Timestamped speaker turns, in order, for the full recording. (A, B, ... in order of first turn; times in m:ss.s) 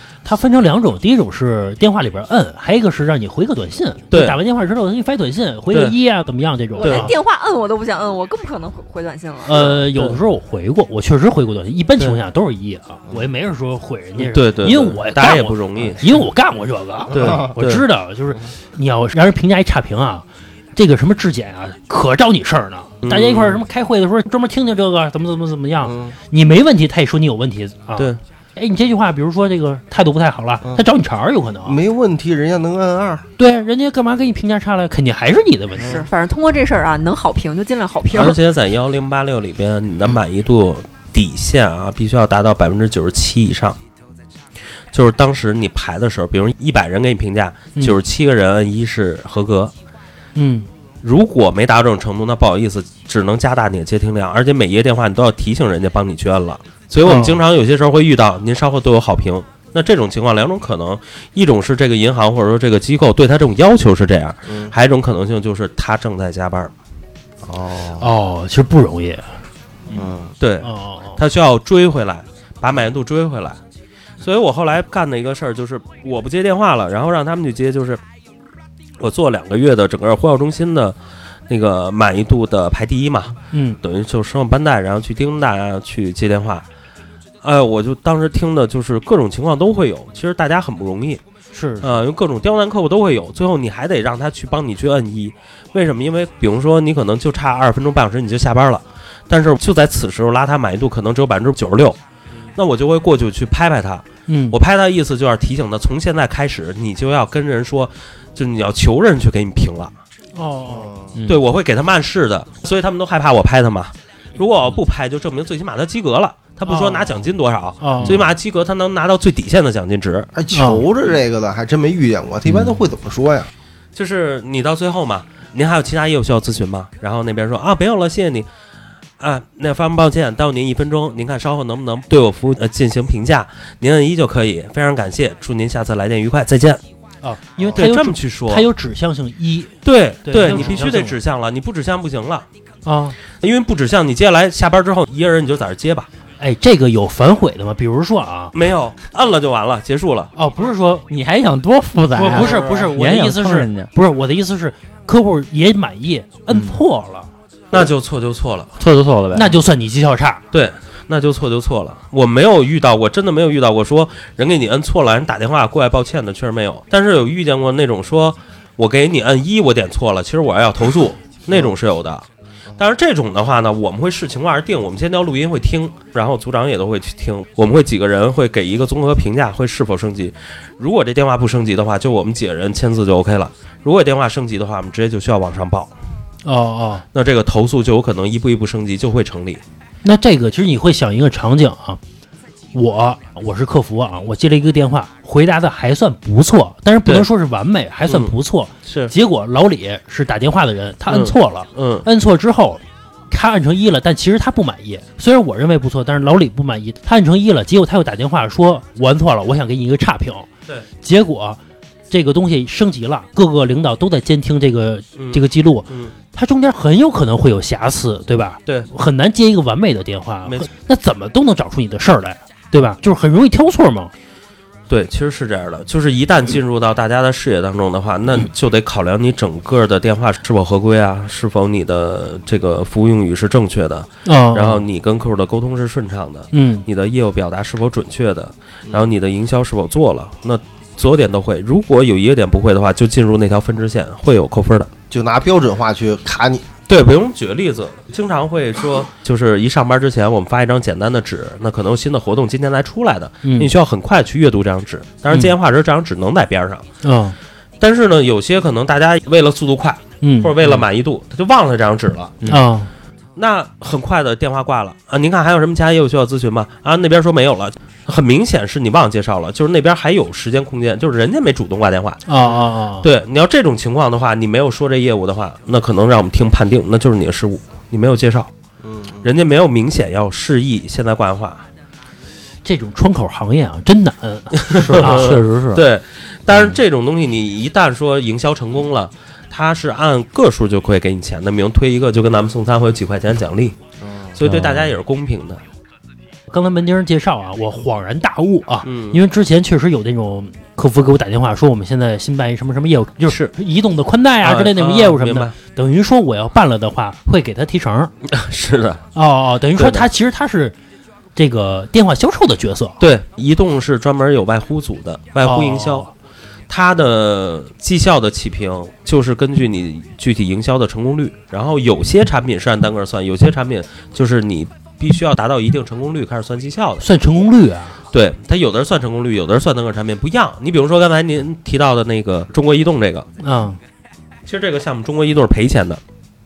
0:00.2-0:07.1 A
0:04.1-0:04.4 B
0:06.8-0:09.6 C
0:06.8-0:07.1 B
0:09.4-0:20.2 A
0:09.5-0:10.2 B
0:14.2-0:16.0 B
0:17.1-0:17.8 B
0:17.1-0:17.5 D
0:20.8-0:31.8 A
0:23.0-0:23.6 B
0:25.8-0:26.2 D
0:31.6-0:33.3 D
0:33.4-0:36.0 A
0:35.8-0:38.4 C
0:38.1-0:43.8 B
0:44.9-0:49.7 B
0:50.4-0:50.7 A
0:51.0-1:06.7 B
0:57.0-0:57.4 A
1:04.5-1:04.7 D
1:07.4-1:08.1 D
1:08.0-1:09.3 A
1:09.9-1:10.3 D
1:10.4-1:13.6 B
1:10.6-1:11.2 A
1:14.2-1:18.0 B
1:19.0-1:21.0 B
1:21.5-1:26.6 B
1:23.5-1:23.8 A
1:27.4-1:31.2 B
1:31.5-1:32.0 A
1:31.8-1:42.0 B
1:42.6-1:49.9 B
1:44.3-1:44.6 A
1:50.4-1:50.9 A
1:50.7-1:51.2 D
1:51.1-1:51.4 E
1:51.3-2:00.3 B
1:56.7-1:57.2 A
1:57.8-1:58.2 A
2:00.4-2:03.5 D
2:00.5-2:00.8 A
2:04.0-2:08.5 B
2:09.2-2:16.8 B
2:17.2-2:21.2 A
2:17.8-2:18.7 B
2:19.8-2:22.5 B
2:22.8-2:23.2 A
2:23.4-2:26.1 B
2:26.4-2:28.5 A
2:28.5-2:30.3 B
2:30.4-2:31.1 A
2:31.1-2:33.9 E
2:32.2-2:37.3 A
2:37.7-2:38.7 B
2:38.8-2:39.6 E
2:39.3-2:40.4 A
2:40.5-2:52.3 B
2:52.8-3:05.9 B
3:06.4-3:07.0 A
3:07.1-3:09.6 B
3:10.0-3:12.0 A
3:12.7-3:30.5 A
3:18.1-3:18.3 B
3:18.8-3:19.1 B
3:21.1-3:22.1 B
3:31.0-3:31.6 A
3:32.1-3:44.1 A
3:35.2-3:36.1 B
3:44.9-4:04.9 B
3:54.2-3:54.8 A
3:56.5-3:56.8 A
4:05.1-4:06.7 D
4:06.9-4:16.9 B
4:13.4-4:13.7 A
4:17.0-4:17.4 A
4:17.8-4:22.6 B
4:20.2-4:20.6 A
4:22.5-4:22.9 A
4:23.4-4:32.2 B
4:32.3-4:33.1 A
4:33.0-4:38.5 B
4:38.8-4:39.3 D
4:39.2-4:41.6 B
4:42.6-4:45.4 A
4:44.6-4:53.8 B
4:44.8-4:45.9 E
4:54.0-4:54.4 D
4:54.4-4:55.6 B
4:54.4-4:54.9 E
4:56.5-5:08.1 A
4:58.8-4:59.2 B
5:03.3-5:03.5 B
5:04.4-5:05.5 B
5:08.3-5:09.0 B
5:09.2-5:10.8 A
5:09.8-5:10.1 B
5:11.4-5:13.0 A
5:13.0-5:16.1 B
5:15.4-5:16.1 A
5:16.7-5:27.1 B
5:27.0-5:28.0 A
5:28.1-5:33.3 B
5:33.4-5:33.8 A
5:34.5-5:36.0 B